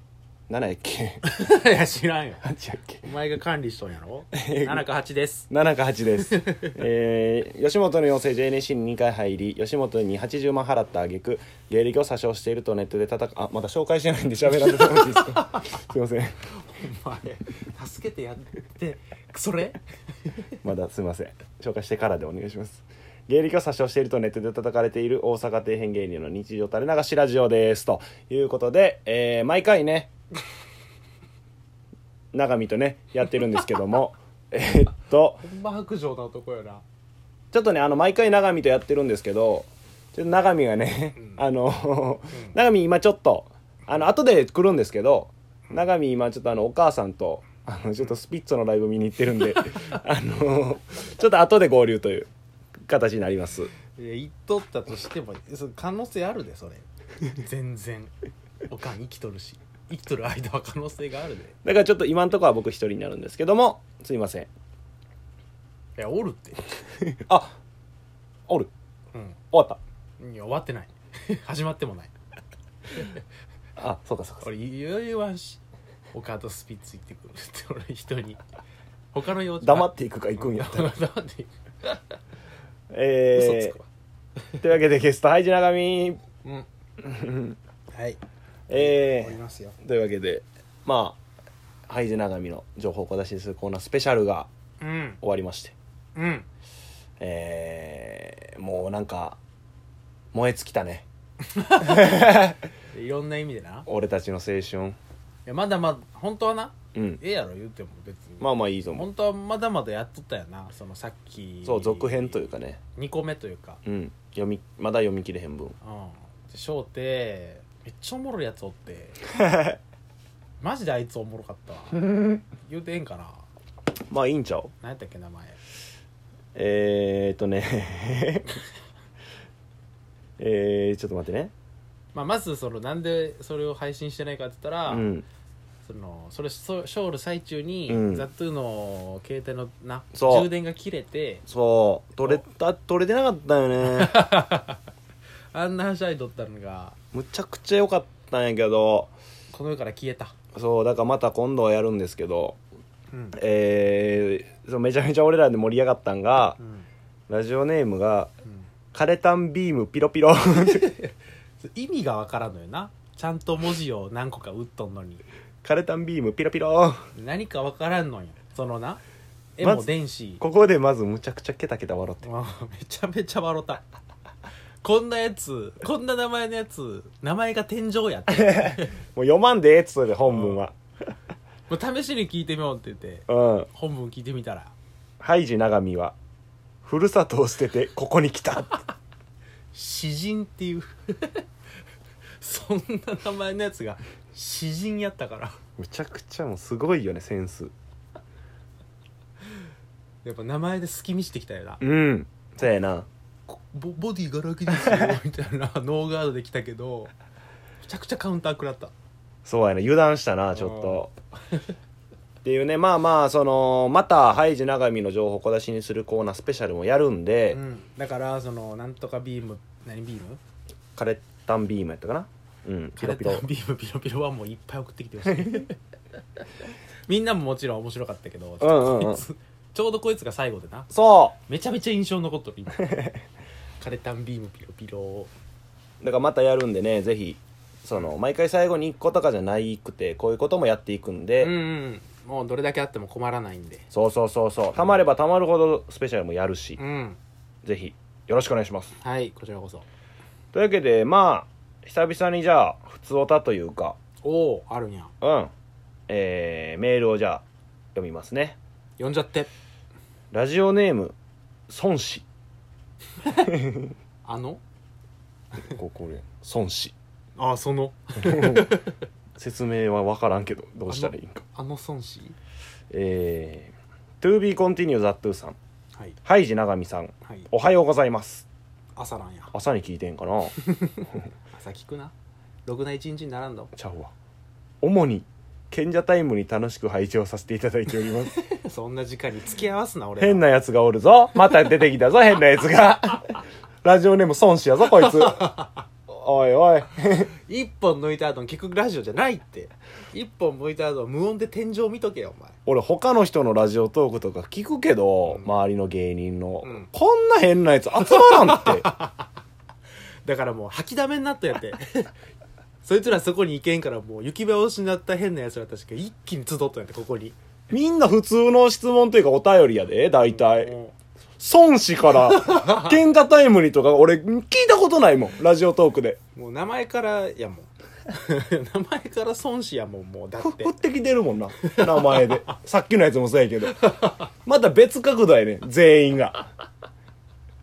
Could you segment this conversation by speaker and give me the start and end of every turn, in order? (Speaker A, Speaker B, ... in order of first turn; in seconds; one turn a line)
Speaker A: 0.5-1.2
Speaker B: 1.2-2.4
Speaker A: 2.4-3.1
Speaker B: 3.0-5.5
Speaker A: 4.3-4.8
Speaker A: 5.5-16.4
Speaker B: 6.3-6.8
Speaker B: 14.5-15.7
Speaker B: 16.6-20.3
Speaker A: 20.6-30.1
Speaker A: 32.3-35.4
Speaker B: 35.4-36.8
Speaker A: 37.5-52.3
Speaker A: 52.9-53.7
Speaker B: 54.0-58.1
Speaker B: 58.7-61.5
Speaker A: 61.6-64.5
Speaker B: 66.0-66.6
Speaker A: 67.2-67.5
Speaker A: 69.5-69.8
Speaker B: 70.2-72.1
Speaker B: 72.9-73.2
Speaker A: 73.8-74.5
Speaker B: 74.4-75.6
Speaker B: 76.1-78.4
Speaker B: 79.1-82.0
Speaker A: 79.6-80.9
Speaker A: 82.9-83.8
Speaker B: 83.3-83.8
Speaker A: 84.6-86.2
Speaker A: 87.0-87.6
Speaker B: 87.9-89.8
Speaker A: 88.7-91.2
Speaker A: 91.9-94.5
Speaker B: 94.8-95.2
Speaker A: 95.2-95.7
Speaker B: 96.1-96.5
Speaker A: 97.2-99.4
Speaker A: 100.3-101.0
Speaker B: 101.5-102.3
Speaker A: 101.9-102.5
Speaker B: 102.9-103.9
Speaker A: 103.9-105.0
Speaker B: 105.5-112.4
Speaker A: 106.9-107.2
Speaker A: 108.4-109.1
Speaker A: 111.6-112.8
Speaker B: 113.0-113.8
Speaker A: 113.8-115.8
Speaker B: 115.8-119.2
Speaker A: 119.4-119.8
Speaker B: 120.6-123.4
Speaker A: 124.1-124.7
Speaker B: 124.8-125.6
Speaker A: 126.5-128.6
Speaker A: 130.4-131.5
Speaker B: 132.1-135.1
Speaker A: 134.9-135.2
Speaker B: 135.8-141.4
Speaker A: 137.9-138.3
Speaker A: 140.1-140.5
Speaker A: 141.5-144.3
Speaker B: 143.9-144.8
Speaker B: 145.5-146.9
Speaker A: 147.1-149.1
Speaker B: 149.5-150.3
Speaker A: 150.5-152.6
Speaker B: 153.1-153.4
Speaker A: 153.3-156.6
Speaker B: 156.6-156.9
Speaker A: 157.3-158.3
Speaker A: 158.9-160.9
Speaker B: 160.7-161.1
Speaker B: 161.6-165.2
Speaker A: 165.6-167.1
Speaker B: 167.1-169.0
Speaker B: 169.6-170.4
Speaker A: 169.6-172.3
Speaker B: 172.2-173.8
Speaker B: 174.8-178.9
Speaker A: 178.3-180.8
Speaker B: 180.3-180.6
Speaker B: 181.7-184.7
Speaker A: 183.3-183.7
Speaker A: 185.2-186.2
Speaker A: 186.8-188.8
Speaker B: 189.7-191.4
Speaker B: 192.4-195.6
Speaker A: 195.8-197.7
Speaker B: 200.2-201.8
Speaker A: 201.8-203.1
Speaker B: 203.5-207.1
Speaker B: 207.8-208.9
Speaker A: 209.4-211.1
Speaker B: 210.5-211.0
Speaker A: 212.4-217.6
Speaker B: 217.5-220.4
Speaker A: 220.9-223.4
Speaker B: 223.0-225.8
Speaker B: 227.1-230.9
Speaker A: 228.6-229.2
Speaker A: 230.9-231.4
Speaker B: 231.5-232.8
Speaker A: 232.8-233.2
Speaker B: 233.8-235.3
Speaker A: 236.0-241.5
Speaker B: 241.4-243.8
Speaker A: 243.9-246.8
Speaker B: 246.8-247.2
Speaker A: 247.6-248.9
Speaker B: 249.0-249.8
Speaker A: 250.5-254.0
Speaker B: 254.2-255.1
Speaker A: 255.2-255.5
Speaker A: 256.1-257.4
Speaker A: 257.9-258.6
Speaker B: 259.0-259.5
Speaker A: 260.3-261.1
Speaker A: 261.7-262.2
Speaker A: 263.5-263.9
Speaker B: 264.2-264.6
Speaker A: 265.7-266.9
Speaker B: 267.4-269.0
Speaker A: 268.3-268.6
Speaker A: 269.4-271.4
Speaker B: 270.9-272.4
Speaker A: 272.9-275.6
Speaker A: 276.2-278.4
Speaker B: 278.9-279.5
Speaker A: 279.5-280.6
Speaker B: 280.6-282.1
Speaker B: 282.6-283.7
Speaker A: 283.7-284.1
Speaker A: 284.8-288.3
Speaker B: 288.3-290.4
Speaker A: 290.2-297.3
Speaker B: 295.0-295.8
Speaker B: 297.4-302.6
Speaker A: 302.6-308.9
Speaker B: 306.6-306.9
Speaker B: 308.1-309.2
Speaker B: 310.2-312.1
Speaker B: 312.8-317.4
Speaker A: 317.7-320.7
Speaker B: 320.2-320.9
Speaker A: 321.4-326.2
Speaker B: 322.3-322.9
Speaker B: 326.4-330.7
Speaker A: 330.4-333.8
Speaker B: 331.7-332.4
Speaker B: 333.8-334.1
Speaker A: 334.4-336.5